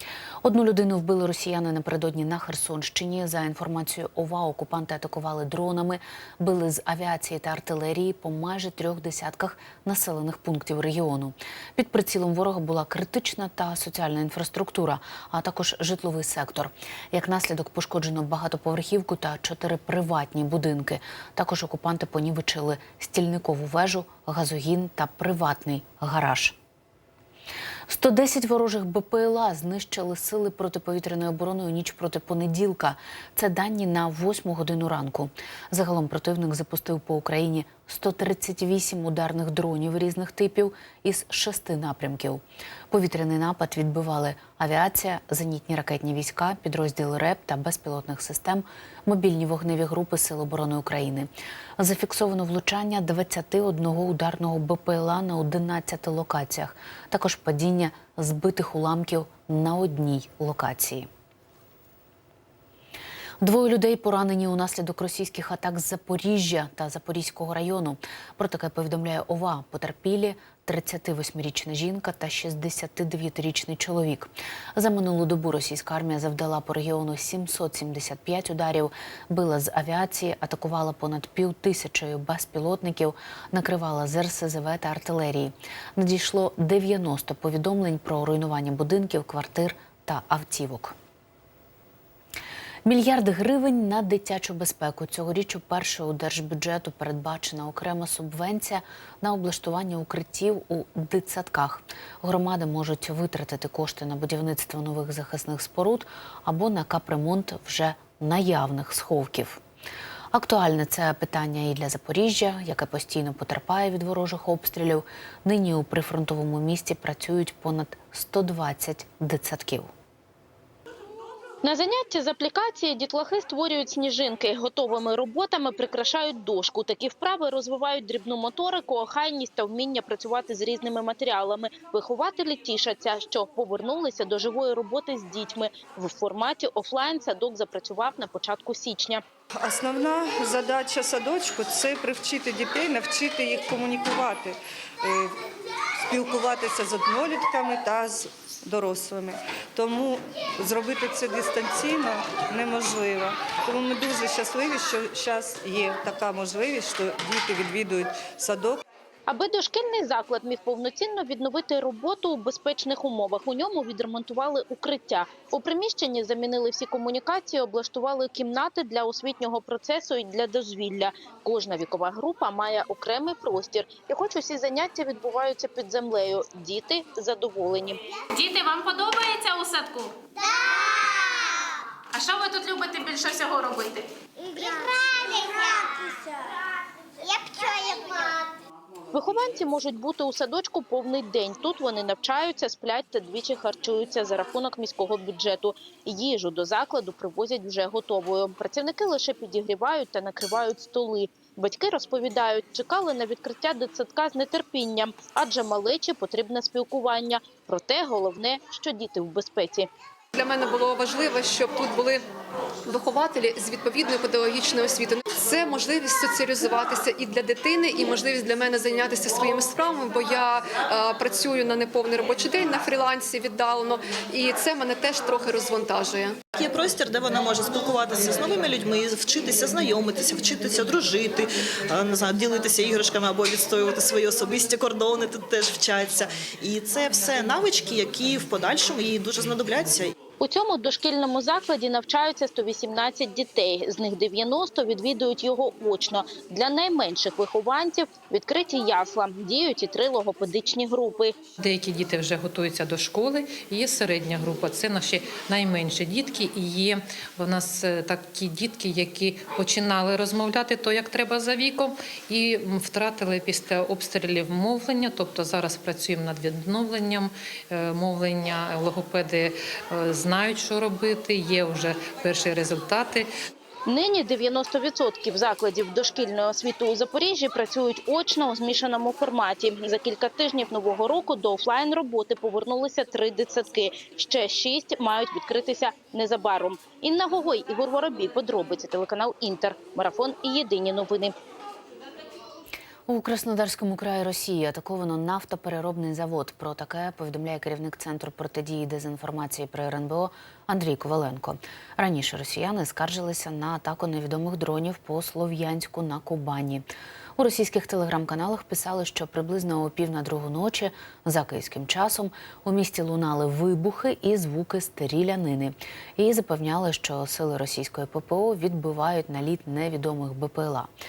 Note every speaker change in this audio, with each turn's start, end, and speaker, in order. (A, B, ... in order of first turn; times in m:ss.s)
0:00.4-0:26.6 A
0:27.9-1:01.1 A
1:03.4-1:30.9 A
1:32.8-1:49.6 A
1:50.3-1:59.9 A
2:01.6-2:19.2 B
2:19.6-2:25.4 C
2:26.0-2:38.8 C
2:39.3-2:58.0 B
2:58.3-3:00.2 D
3:02.1-3:04.1 D
3:04.5-3:06.0 E
3:07.4-3:08.3 E
3:09.1-3:29.9 B
3:30.3-3:32.2 F
3:32.9-3:46.4 F
3:46.5-4:00.1 G
4:00.4-4:11.3 B
4:11.6-4:33.3 H
4:33.8-4:51.3 B
4:53.1-5:06.8 A
5:07.4-5:20.9 A